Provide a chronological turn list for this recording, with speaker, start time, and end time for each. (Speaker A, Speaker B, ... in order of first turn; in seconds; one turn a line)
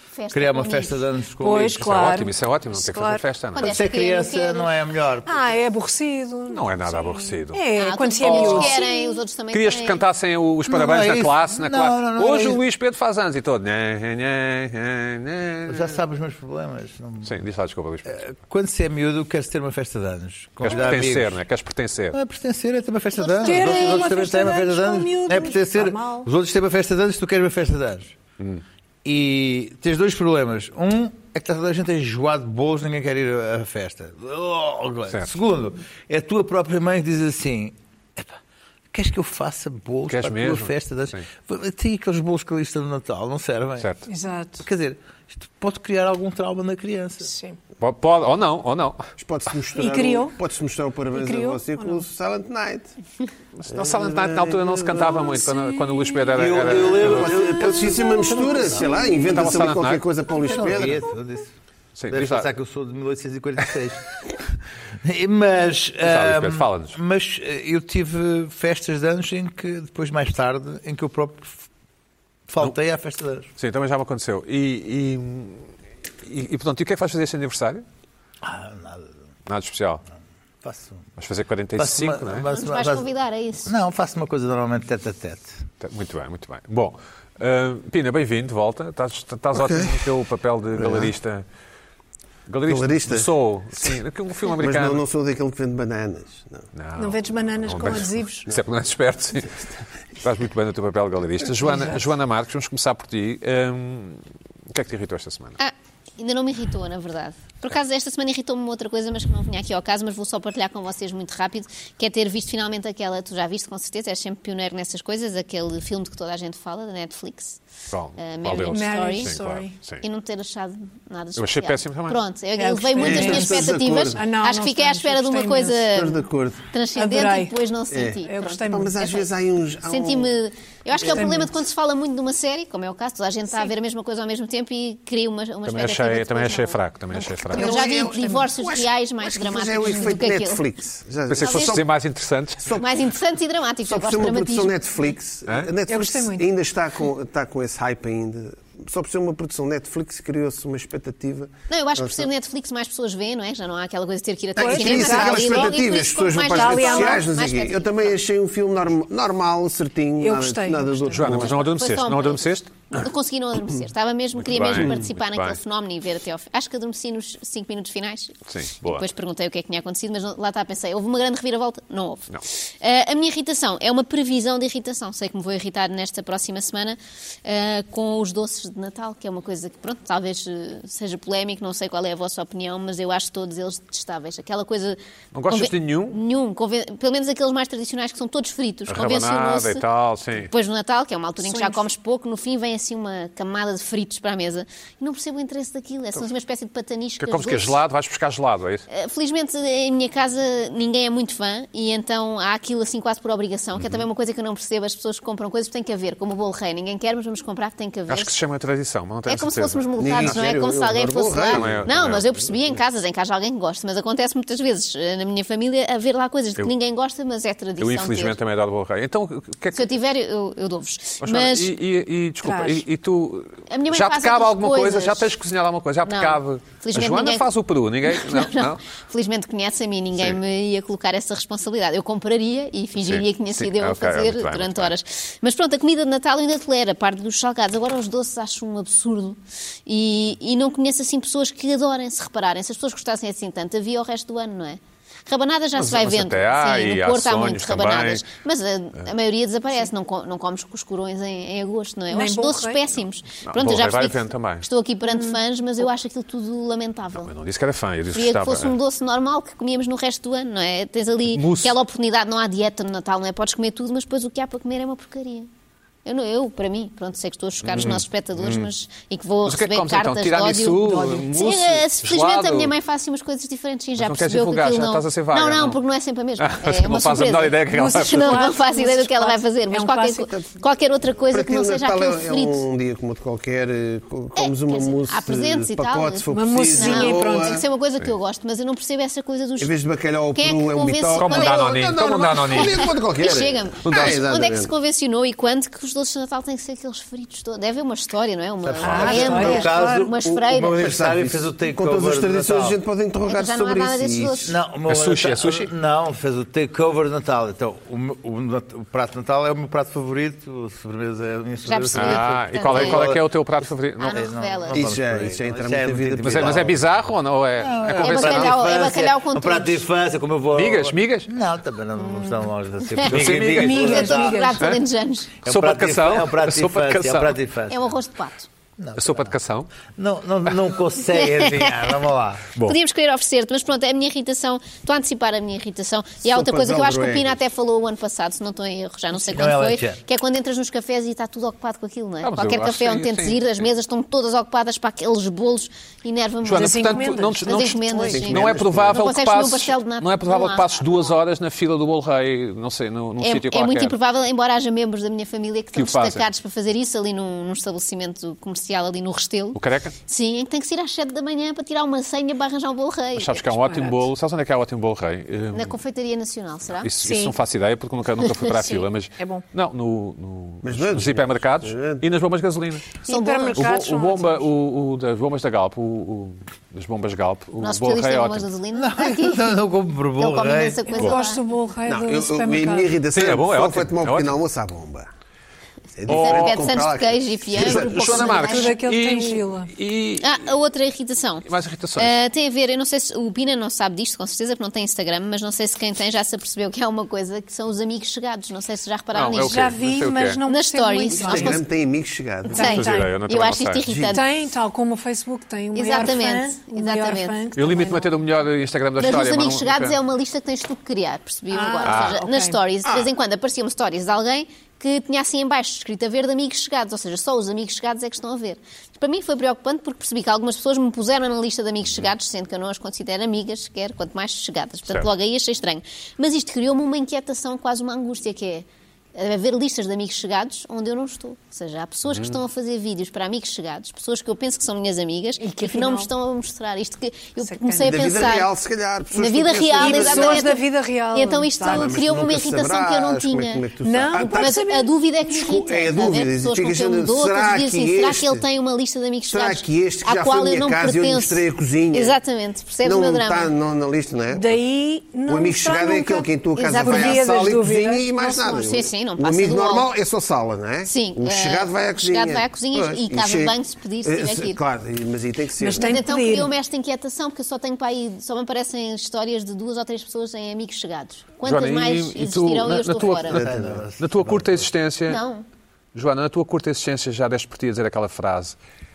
Speaker A: 0.2-1.0
Speaker B: 0.3-1.9
Speaker C: 1.4-3.2
Speaker D: 1.8-3.9
Speaker A: 3.5-4.7
Speaker B: 3.6-5.4
Speaker C: 5.2-9.2
Speaker D: 6.5-7.6
Speaker A: 7.7-10.0
Speaker D: 8.2-8.8
Speaker D: 9.5-16.0
Speaker B: 10.7-12.6
Speaker B: 15.7-17.4
Speaker D: 17.2-18.2
Speaker B: 18.1-21.4
Speaker D: 20.6-22.2
Speaker B: 22.1-28.1
Speaker A: 23.1-24.1
Speaker C: 23.4-26.3
Speaker B: 29.0-38.4
Speaker B: 38.9-43.9
Speaker D: 40.1-41.3
Speaker D: 43.8-44.0
Speaker C: 44.1-44.7
Speaker B: 44.6-47.3
Speaker C: 47.2-47.6
Speaker D: 47.8-49.1
Speaker E: 49.2-52.9
Speaker C: 49.8-50.4
Speaker C: 51.1-52.0
Speaker D: 53.6-57.6
Speaker E: 53.7-55.2
Speaker B: 56.3-58.9
Speaker E: 56.9-61.1
Speaker D: 59.3-60.0
Speaker B: 60.4-61.5
Speaker D: 62.0-62.5
Speaker B: 62.1-64.0
Speaker B: 65.0-71.6
Speaker D: 66.0-67.0
Speaker B: 72.5-73.5
Speaker D: 73.6-75.7
Speaker D: 76.2-77.8
Speaker B: 78.4-79.1
Speaker D: 79.5-80.0
Speaker B: 80.6-81.0
Speaker D: 81.2-82.5
Speaker B: 81.8-83.0
Speaker A: 82.5-83.7
Speaker B: 83.7-85.6
Speaker D: 85.8-91.5
Speaker E: 89.5-90.1
Speaker E: 90.8-91.1
Speaker D: 92.5-95.0
Speaker E: 92.7-94.0
Speaker E: 94.6-96.7
Speaker D: 96.7-105.6
Speaker C: 97.0-98.5
Speaker A: 105.6-117.6
Speaker D: 117.9-120.0
Speaker A: 118.2-119.4
Speaker C: 118.7-119.7
Speaker A: 120.0-129.2
Speaker D: 121.4-122.2
Speaker C: 122.6-125.9
Speaker E: 123.0-124.2
Speaker E: 125.9-126.7
Speaker C: 127.0-127.5
Speaker E: 127.9-130.3
Speaker C: 128.3-129.3
Speaker A: 129.9-136.8
Speaker C: 131.1-131.5
Speaker D: 135.7-137.8
Speaker A: 137.4-140.6
Speaker E: 137.5-141.8
Speaker C: 137.6-138.6
Speaker C: 139.8-140.2
Speaker D: 141.3-142.7
Speaker A: 141.4-141.8
Speaker E: 142.7-143.0
Speaker A: 142.7-144.8
Speaker E: 143.8-152.3
Speaker C: 145.9-146.5
Speaker A: 151.7-158.0
Speaker E: 154.6-161.7
Speaker C: 154.6-155.8
Speaker C: 156.4-157.3
Speaker C: 160.2-161.2
Speaker D: 161.1-163.1
Speaker A: 161.4-189.8
Speaker D: 164.4-165.6
Speaker D: 168.5-169.1
Speaker D: 185.3-186.2
Speaker D: 188.9-190.5
Speaker A: 190.4-197.8
Speaker C: 191.4-191.9
Speaker D: 197.2-198.9
Speaker A: 198.9-208.3
Speaker D: 203.8-204.0
Speaker D: 208.1-210.4
Speaker A: 209.3-218.4
Speaker E: 210.0-211.9
Speaker D: 211.5-212.4
Speaker D: 217.8-219.9
Speaker A: 219.7-221.7
Speaker D: 221.2-228.8
Speaker C: 222.4-222.8
Speaker A: 223.7-225.3
Speaker A: 226.0-227.5
Speaker A: 228.0-257.3
Speaker D: 233.0-234.9
Speaker D: 245.8-248.3
Speaker C: 252.1-252.8
Speaker D: 253.5-254.7
Speaker D: 257.2-258.8
Speaker A: 258.1-265.5
Speaker D: 261.3-261.8
Speaker A: 266.1-282.6
Speaker D: 267.6-268.7
Speaker D: 269.4-272.7
Speaker D: 274.0-275.8
Speaker D: 276.4-278.5
Speaker C: 277.7-280.3
Speaker E: 281.3-287.6
Speaker A: 284.4-289.7
Speaker C: 286.3-287.6
Speaker E: 289.6-294.7
Speaker A: 290.3-300.8
Speaker D: 291.1-292.9
Speaker D: 293.8-294.2
Speaker B: 298.6-302.8
Speaker C: 298.8-300.1
Speaker D: 298.9-299.2
Speaker E: 299.1-299.6
Speaker E: 300.7-304.5
Speaker A: 303.3-304.6
Speaker B: 304.4-313.2
Speaker D: 304.9-305.7
Speaker A: 311.6-313.1
Speaker D: 311.9-314.3
Speaker A: 314.0-314.9
Speaker B: 314.1-316.8
Speaker E: 314.7-316.9
Speaker D: 316.2-318.6
Speaker B: 317.6-324.6
Speaker A: 318.0-319.8
Speaker D: 320.5-321.3
Speaker A: 322.9-325.4
Speaker D: 323.0-324.8
Speaker C: 323.4-324.7
Speaker B: 325.4-327.8
Speaker D: 325.4-327.4
Speaker A: 327.7-328.5
Speaker B: 328.8-329.3
Speaker D: 329.0-329.7
Speaker B: 330.0-332.5
Speaker A: 331.1-331.9
Speaker A: 332.6-351.2
Speaker E: 336.2-337.4
Speaker B: 339.3-340.0
Speaker D: 342.2-343.7
Speaker D: 346.4-354.0
Speaker C: 346.6-348.0
Speaker E: 348.0-349.1
Speaker A: 353.2-363.6
Speaker D: 355.7-356.3
Speaker D: 359.5-360.0
Speaker D: 363.1-365.8
Speaker A: 365.5-366.9
Speaker D: 366.8-373.0
Speaker C: 367.0-367.3
Speaker C: 369.2-369.4
Speaker E: 370.6-372.0
Speaker A: 373.1-373.8
Speaker C: 373.1-374.4
Speaker D: 373.5-378.5
Speaker A: 377.6-379.5
Speaker B: 378.7-380.8
Speaker A: 380.2-381.4
Speaker C: 380.9-383.0
Speaker E: 381.9-385.1
Speaker D: 383.1-384.4
Speaker E: 386.0-388.2
Speaker D: 386.1-386.7
Speaker A: 386.1-388.8
Speaker D: 387.5-390.4
Speaker C: 388.2-389.7
Speaker A: 390.2-399.6
Speaker D: 391.5-392.1
Speaker D: 399.1-400.4
Speaker C: 399.3-401.6
Speaker A: 400.4-401.6
Speaker E: 401.1-402.8
Speaker A: 402.5-404.3
Speaker C: 402.5-403.2
Speaker D: 402.6-403.9
Speaker E: 403.9-404.2
Speaker C: 404.1-408.1
Speaker A: 405.7-407.4
Speaker D: 407.6-410.0
Speaker A: 409.0-438.5
Speaker C: 411.5-412.6
Speaker D: 411.8-412.2
Speaker E: 412.9-413.1
Speaker C: 435.4-436.1
Speaker C: 437.4-438.2
Speaker E: 437.8-440.5
Speaker A: 439.1-453.5
Speaker C: 439.8-442.1
Speaker E: 441.6-444.6
Speaker C: 443.8-444.9
Speaker E: 445.2-448.4
Speaker E: 449.3-452.2
Speaker E: 452.8-454.5
Speaker C: 454.3-458.7
Speaker E: 455.3-466.0
Speaker A: 456.6-457.4
Speaker A: 458.6-459.9
Speaker A: 460.9-464.6
Speaker C: 465.6-466.5
Speaker A: 465.8-473.4
Speaker D: 471.4-475.2
Speaker B: 473.3-474.6
Speaker A: 475.1-475.4
Speaker D: 475.9-478.6